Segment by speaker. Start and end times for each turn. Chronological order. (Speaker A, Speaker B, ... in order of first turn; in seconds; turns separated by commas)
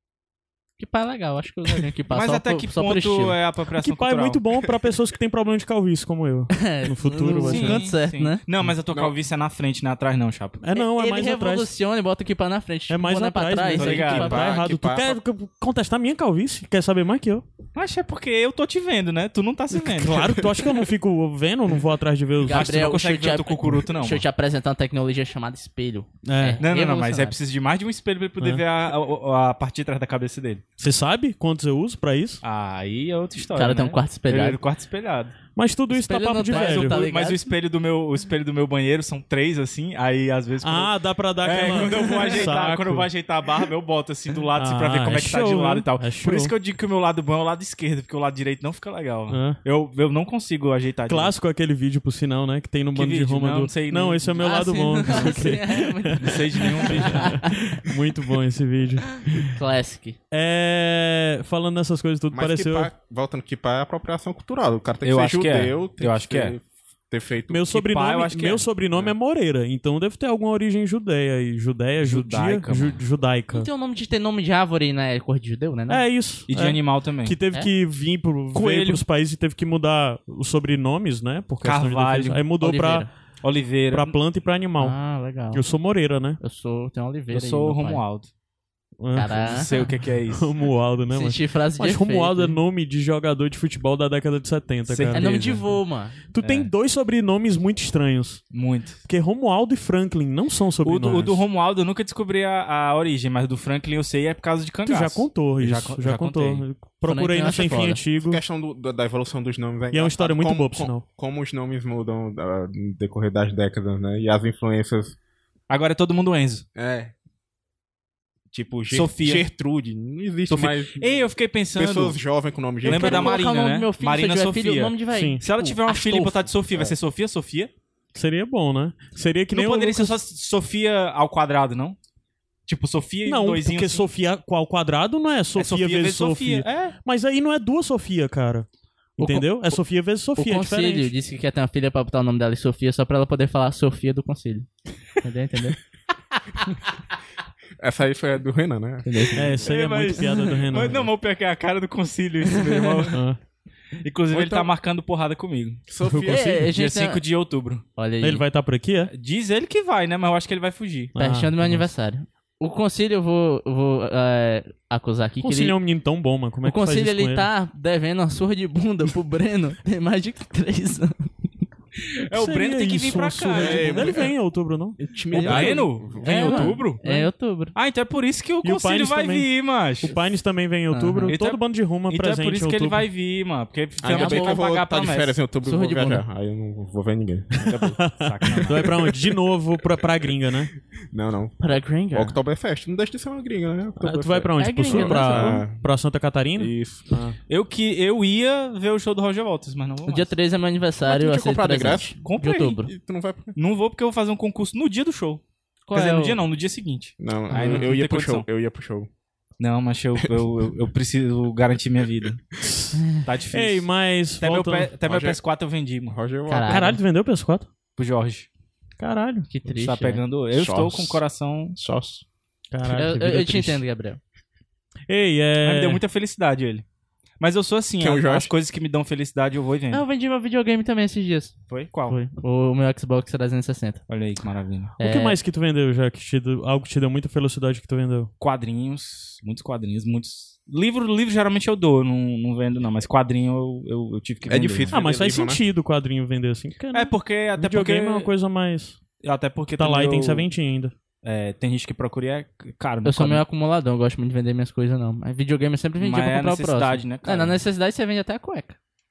Speaker A: 0.8-3.4, Speaker B: 2.1-4.4, Speaker C: 3.8-7.8, Speaker A: 6.5-8.4, Speaker B: 7.4-10.6, Speaker C: 10.6-11.7, Speaker A: 10.8-14.6, Speaker C: 12.9-17.4, Speaker B: 13.8-14.4, Speaker D: 13.8-15.2, Speaker B: 17.8-20.6, Speaker C: 19.7-22.8, Speaker A: 22.4-27.4, Speaker B: 22.5-24.2, Speaker C: 26.2-26.6, Speaker B: 26.6-30.6, Speaker C: 30.8-32.4, Speaker B: 32.4-35.4, Speaker A: 33.5-34.6, Speaker C: 35.6-37.0, Speaker A: 35.9-37.4, Speaker B: 36.5-51.3, Speaker C: 40.6-43.1, Speaker C: 44.6-46.5, Speaker C: 49.3-49.6, Speaker C: 51.1-59.6, Speaker B: 53.0-54.4, Speaker A: 54.4-57.7, Speaker B: 56.2-57.4, Speaker A: 59.4-60.2, Speaker C: 60.3-62.9, Speaker D: 62.3-67.7, Speaker B: 65.0-66.6, Speaker C: 67.5-73.7, Speaker B: 67.7-68.7, Speaker B: 72.0-73.0, Speaker A: 73.5-76.0, Speaker C: 75.9-83.1, Speaker B: 76.5-77.4, Speaker B: 78.5-79.0, Speaker B: 81.6-82.4, Speaker A: 82.6-83.1, Speaker B: 83.4-84.1, Speaker C: 83.9-85.0, Speaker A: 84.8-85.6, Speaker C: 85.5-86.4, Speaker A: 86.4-88.0, Speaker B: 87.3-88.3, Speaker C: 89.0-95.5, Speaker A: 89.1-89.7, Speaker B: 89.3-90.5, Speaker A: 91.1-92.6, Speaker B: 94.9-95.7, Speaker A: 95.1-96.2, Speaker C: 96.3-98.4, Speaker B: 96.4-96.7, Speaker B: 98.5-99.0, Speaker C: 99.0-101.4, Speaker B: 100.8-106.7, Speaker C: 104.8-108.4, Speaker A: 107.0-108.0, Speaker D: 108.2-115.2, Speaker C: 109.9-111.0, Speaker B: 115.7-116.7, Speaker D: 116.8-117.1, Speaker D: 118.5-121.1, Speaker B: 118.9-119.5, Speaker B: 120.5-122.2, Speaker D: 121.8-123.4, Speaker B: 122.8-127.7, Speaker A: 122.8-126.3, Speaker C: 125.1-125.4, Speaker C: 128.2-130.2, Speaker B: 129.5-132.0, Speaker B: 132.7-134.1, Speaker C: 133.2-138.7, Speaker B: 135.6-136.9, Speaker C: 139.2-141.1, Speaker A: 139.2-139.5, Speaker A: 140.4-145.8, Speaker D: 147.8-149.7, Speaker A: 149.1-149.6, Speaker C: 149.3-151.1, Speaker B: 149.6-153.2, Speaker A: 152.6-153.1, Speaker C: 153.1-153.4, Speaker B: 154.0-155.8, Speaker D: 154.3-154.7, Speaker D: 155.9-156.7, Speaker C: 156.0-156.5, Speaker A: 156.3-157.2, Speaker B: 156.6-157.8, Speaker A: 158.0-158.4, Speaker C: 158.2-159.1, Speaker B: 159.1-161.2, Speaker C: 161.2-161.9, Speaker A: 161.2-165.8, Speaker C: 165.4-167.5, Speaker A: 166.6-171.3, Speaker B: 172.3-174.3, Speaker C: 172.3-175.7, Speaker D: 173.6-174.3, Speaker D: 175.0-176.8, Speaker B: 175.3-180.1, Speaker A: 175.3-177.8, Speaker C: 178.6-179.5, Speaker C: 180.0-183.1, Speaker A: 180.9-181.4, Speaker B: 181.3-185.4, Speaker D: 184.0-189.4, Speaker A: 184.1-184.6, Speaker A: 185.6-186.2, Speaker C: 187.7-190.7, Speaker B: 188.2-188.9, Speaker D: 191.1-191.6, Speaker A: 191.6-192.4, Speaker D: 192.1-195.8, Speaker C: 194.0-197.4, Speaker A: 194.6-195.6, Speaker D: 196.6-197.1, Speaker B: 197.5-200.3, Speaker A: 200.1-202.9, Speaker D: 201.0-202.2, Speaker B: 202.2-202.8, Speaker D: 202.8-203.6, Speaker B: 203.6-205.4, Speaker A: 205.9-206.4, Speaker B: 205.9-208.5, Speaker D: 207.2-209.1, Speaker B: 209.6-212.4, Speaker C: 212.6-214.9, Speaker A: 213.0-213.2, Speaker B: 213.2-213.8, Speaker B: 214.4-216.2, Speaker D: 215.1-215.4, Speaker D: 216.1-216.9, Speaker A: 216.5-216.9, Speaker C: 216.7-217.7, Speaker B: 218.0-218.5, Speaker C: 219.0-219.5, Speaker A: 219.5-220.2, Speaker B: 219.7-221.8, Speaker D: 220.5-221.2, Speaker D: 221.8-222.2, Speaker C: 222.7-223.8, Speaker A: 222.9-224.2, Speaker C: 225.1-226.0, Speaker B: 225.6-226.8, Speaker B: 227.4-230.0, Speaker D: 228.0-228.5, Speaker A: 229.9-231.6, Speaker B: 231.7-232.2, Speaker A: 232.1-234.0, Speaker B: 234.1-234.9, Speaker C: 235.0-238.3, Speaker A: 235.0-235.4, Speaker B: 238.4-244.9, Speaker D: 244.5-245.6, Speaker C: 244.9-249.0, Speaker B: 246.9-248.3, Speaker B: 249.2-250.5, Speaker C: 249.8-250.9, Speaker B: 251.2-253.4, Speaker A: 253.1-258.8, Speaker B: 256.0-257.6